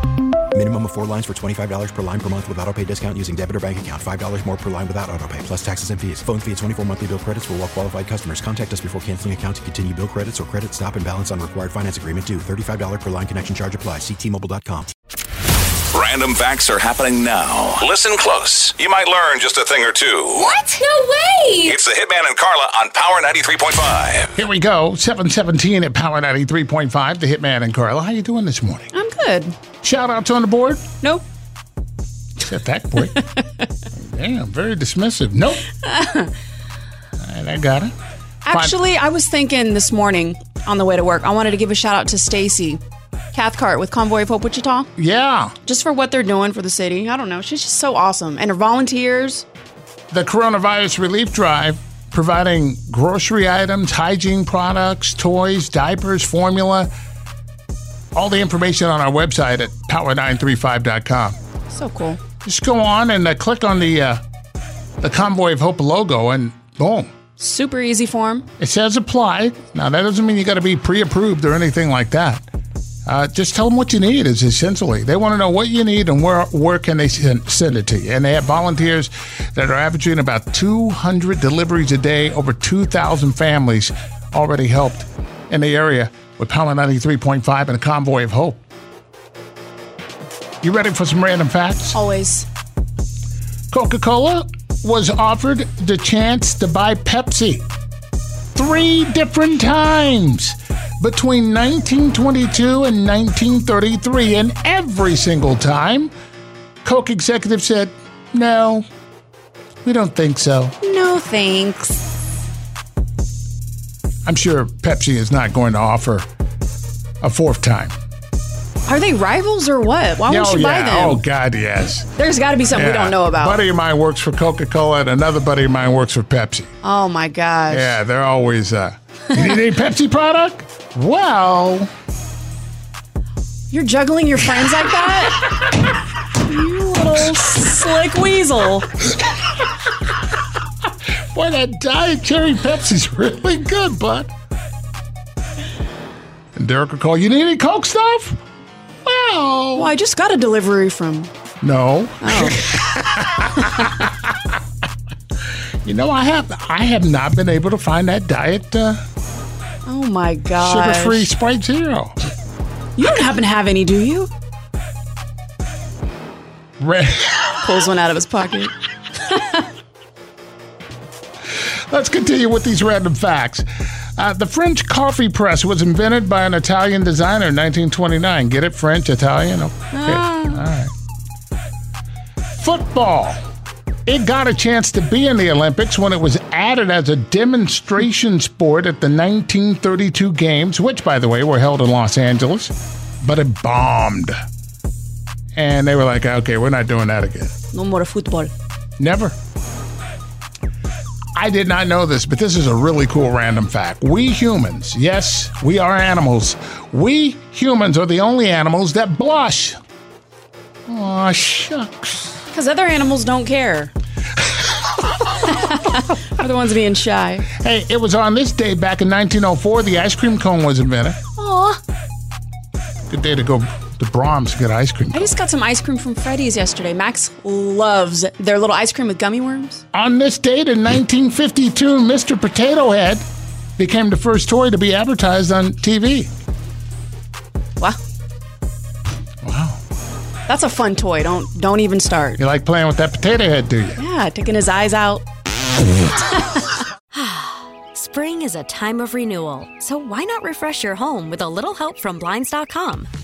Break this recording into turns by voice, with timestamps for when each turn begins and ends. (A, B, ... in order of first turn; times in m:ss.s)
0:00.5-0:14.9 A
0:15.9-0:20.5 B
0:20.4-0:21.8 C
0:21.7-0:24.3 B
0:24.4-0:28.9 D
0:28.9-0:29.6 C
0:29.8-0:30.9 D
0:32.4-0:33.2 D
0:33.9-0:35.8 D
0:35.9-0:36.3 C
0:37.2-0:37.9 D
0:38.4-0:42.8 C
0:38.5-0:38.8 D
0:43.3-0:44.9 C
0:45.0-0:45.6 D
0:45.6-0:49.5 C
0:50.1-0:56.9 D
0:58.2-1:01.4 D
1:01.7-1:02.2 C
1:02.4-1:04.2 D
1:05.0-1:07.1 D
1:07.4-1:08.5 C
1:08.6-1:12.4 D
1:13.1-1:28.6 D
1:30.6-1:32.0 D
1:31.9-1:32.5 C
1:33.7-1:37.6 D
1:38.6-1:46.1 D
1:46.8-1:48.8 D
1:49.8-1:50.7 D
1:50.8-1:52.0 C
1:54.3-1:56.3 D
1:57.2-1:57.9 D
1:58.9-2:01.2 C
2:00.3-2:02.1 D
2:02.2-2:03.6 C
2:02.7-2:06.7 D
2:06.8-2:08.0 C
2:07.7-2:11.9 D
2:13.7-2:15.8 C
2:16.3-2:18.9 C
2:21.3-2:24.3 D
2:26.6-2:28.4 D
2:29.0-2:29.9 D
2:29.8-2:31.3 C
2:31.6-2:34.3 D
2:32.2-2:32.7 C
2:35.8-2:39.0 D
2:39.9-2:41.3 C
2:40.6-2:42.1 D
2:43.0-2:44.3 C
2:46.8-2:47.7 D
2:47.6-2:48.7 C
2:49.3-2:49.6 C
2:51.9-2:53.6 D
2:54.2-3:00.9 D
2:59.9-3:00.6 C
3:02.5-3:03.4 D
3:04.1-3:14.3 D
3:15.6-3:17.5 D
3:17.7-3:18.5 C
3:19.0-3:19.3 D
3:21.4-3:29.8 D
3:30.9-3:32.4 D
3:32.5-3:33.9 C
3:35.4-3:37.5 C
3:37.5-3:41.2 D
3:41.4-3:41.8 C
3:43.1-3:45.3 D
3:45.1-3:49.8 C
3:49.9-3:53.2 D
3:53.8-3:56.3 D
3:59.4-3:59.8 D
4:00.5-4:02.4 C
4:02.4-4:04.0 D
4:04.0-4:05.2 C
4:07.1-4:13.1 E